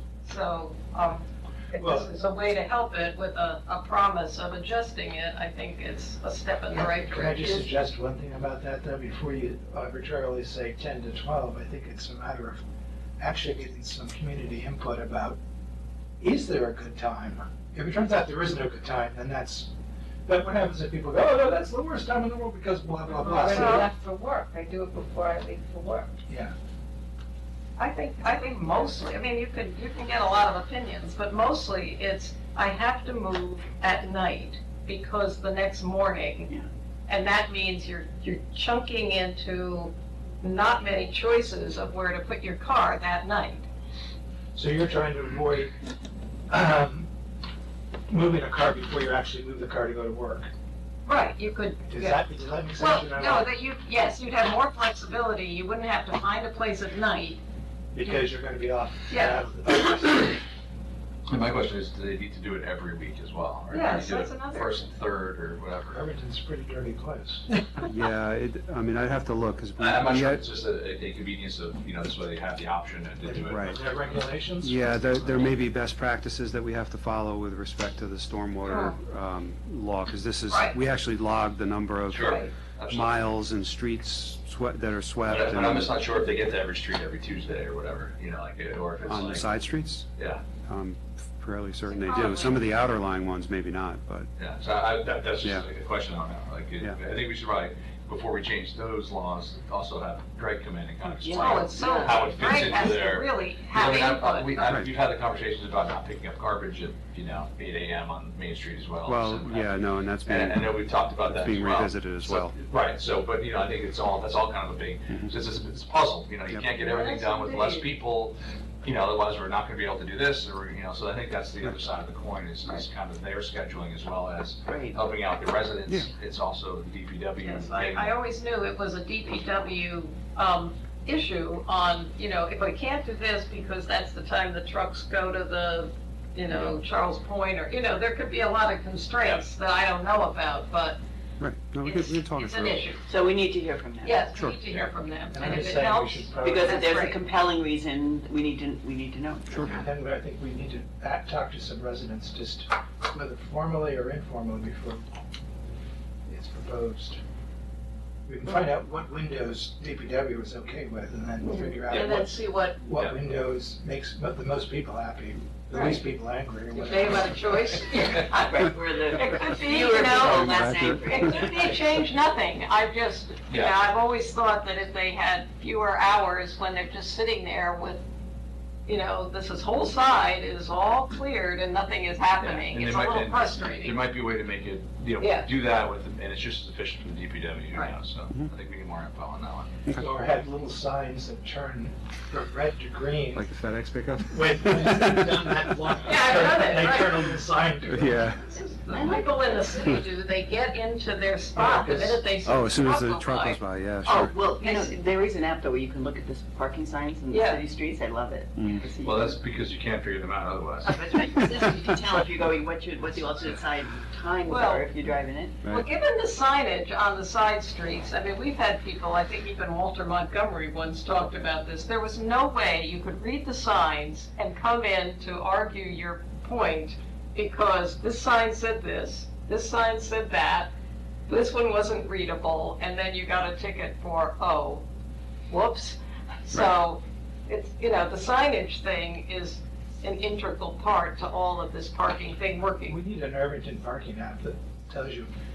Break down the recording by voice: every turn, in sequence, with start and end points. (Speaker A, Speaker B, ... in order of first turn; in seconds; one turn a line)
Speaker A: 0.2-7.7
Speaker B: 1.7-2.1
Speaker B: 6.7-12.6
Speaker B: 13.2-15.4
Speaker B: 16.2-19.7
Speaker B: 20.2-23.9
Speaker C: 23.1-26.1
Speaker A: 23.4-23.9
Speaker B: 26.3-26.5
Speaker A: 27.8-36.5
Speaker A: 37.1-43.6
Speaker B: 44.5-45.7
Speaker B: 46.5-47.1
Speaker B: 48.1-50.5
Speaker A: 51.0-52.2
Speaker B: 51.9-53.5
Speaker A: 52.8-57.4
Speaker B: 57.9-60.4
Speaker A: 59.1-59.4
Speaker D: 61.3-66.0
Speaker A: 63.7-64.8
Speaker B: 65.9-67.5
Speaker E: 67.8-70.5
Speaker D: 69.8-74.2
Speaker B: 73.2-75.0
Speaker E: 73.5-73.8
Speaker E: 74.6-86.0
Speaker D: 75.2-75.5
Speaker A: 78.7-79.0
Speaker A: 80.5-80.8
Speaker D: 82.1-83.2
Speaker A: 82.2-82.5
Speaker D: 85.3-89.5
Speaker E: 89.0-90.1
Speaker E: 90.7-94.3
Speaker A: 91.9-92.8
Speaker D: 94.4-128.2
Speaker F: 101.2-102.2
Speaker A: 101.3-104.7
Speaker E: 104.6-104.9
Speaker E: 109.0-112.6
Speaker A: 116.8-117.9
Speaker F: 124.7-125.0
Speaker A: 127.4-141.0
Speaker E: 136.5-136.8
Speaker E: 141.4-142.9
Speaker A: 141.8-143.0
Speaker F: 143.1-144.3
Speaker A: 144.0-147.2
Speaker B: 145.3-147.0
Speaker F: 146.4-149.7
Speaker E: 149.5-149.8
Speaker B: 149.6-155.0
Speaker B: 156.3-157.2
Speaker B: 158.3-168.1
Speaker A: 161.4-162.8
Speaker A: 165.7-166.1
Speaker A: 166.7-178.0
Speaker F: 168.2-171.8
Speaker E: 170.0-171.5
Speaker D: 173.5-173.8
Speaker A: 178.8-184.0
Speaker D: 182.4-189.7
Speaker A: 185.2-185.5
Speaker B: 189.9-193.4
Speaker E: 193.3-195.9
Speaker B: 194.3-198.3
Speaker A: 196.0-197.3
Speaker E: 197.8-198.5
Speaker A: 198.6-204.9
Speaker F: 198.9-199.3
Speaker B: 201.5-202.2
Speaker E: 202.4-204.3
Speaker F: 204.2-209.4
Speaker A: 207.3-207.6
Speaker E: 208.6-208.8
Speaker D: 209.0-210.9
Speaker F: 210.9-215.6
Speaker A: 210.9-211.3
Speaker A: 214.4-214.9
Speaker A: 215.7-230.7
Speaker A: 231.3-234.8
Speaker A: 235.5-243.0
Speaker B: 242.9-245.3